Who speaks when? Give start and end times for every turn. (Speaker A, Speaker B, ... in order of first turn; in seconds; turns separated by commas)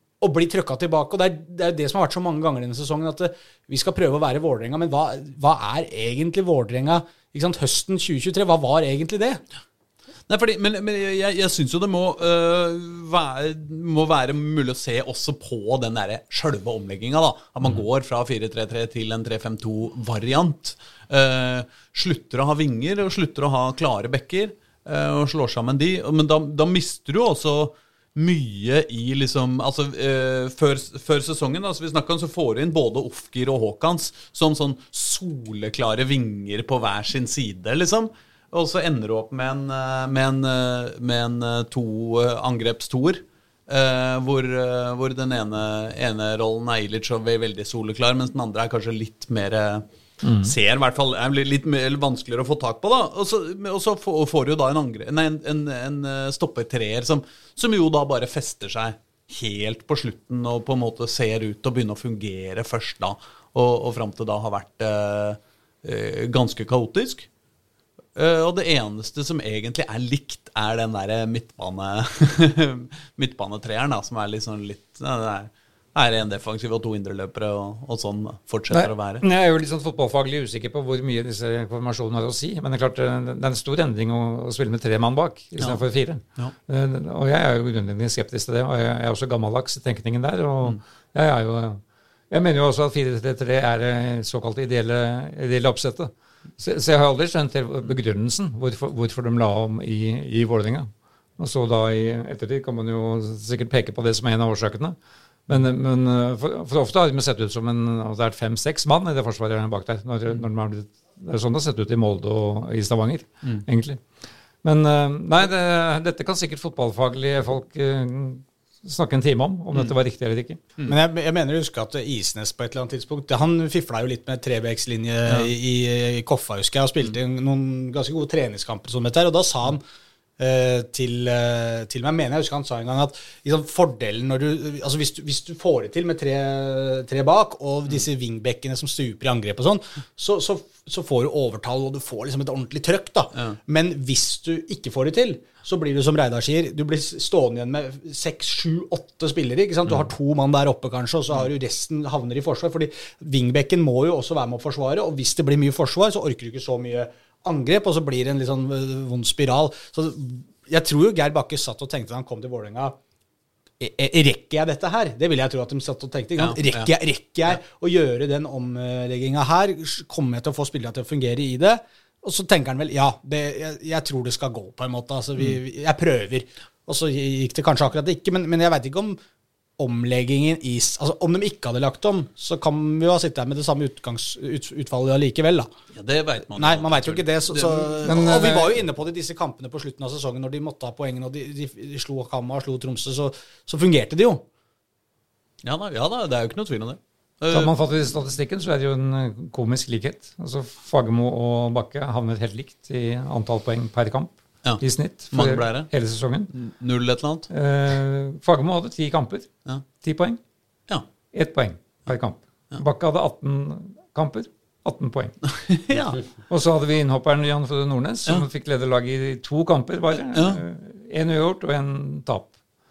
Speaker A: 0.2-9.4, Speaker B: 10.3-49.9, Speaker C: 50.2-50.5, Speaker B: 50.4-67.3, Speaker B: 68.2-79.2, Speaker C: 78.7-105.0, Speaker C: 105.5-114.0, Speaker C: 114.6-120.6, Speaker A: 120.9-129.8, Speaker A: 130.4-163.0, Speaker A: 163.8-179.2, Speaker B: 166.4-166.9, Speaker A: 179.8-185.7, Speaker B: 185.9-188.1, Speaker A: 186.6-194.4, Speaker C: 188.0-188.8, Speaker B: 195.6-197.7, Speaker C: 197.5-206.5, Speaker B: 204.6-205.9, Speaker B: 206.5-207.5, Speaker C: 207.5-209.5, Speaker C: 210.0-210.4, Speaker C: 211.3-215.4, Speaker B: 215.6-216.2, Speaker C: 216.5-222.5, Speaker B: 220.3-220.6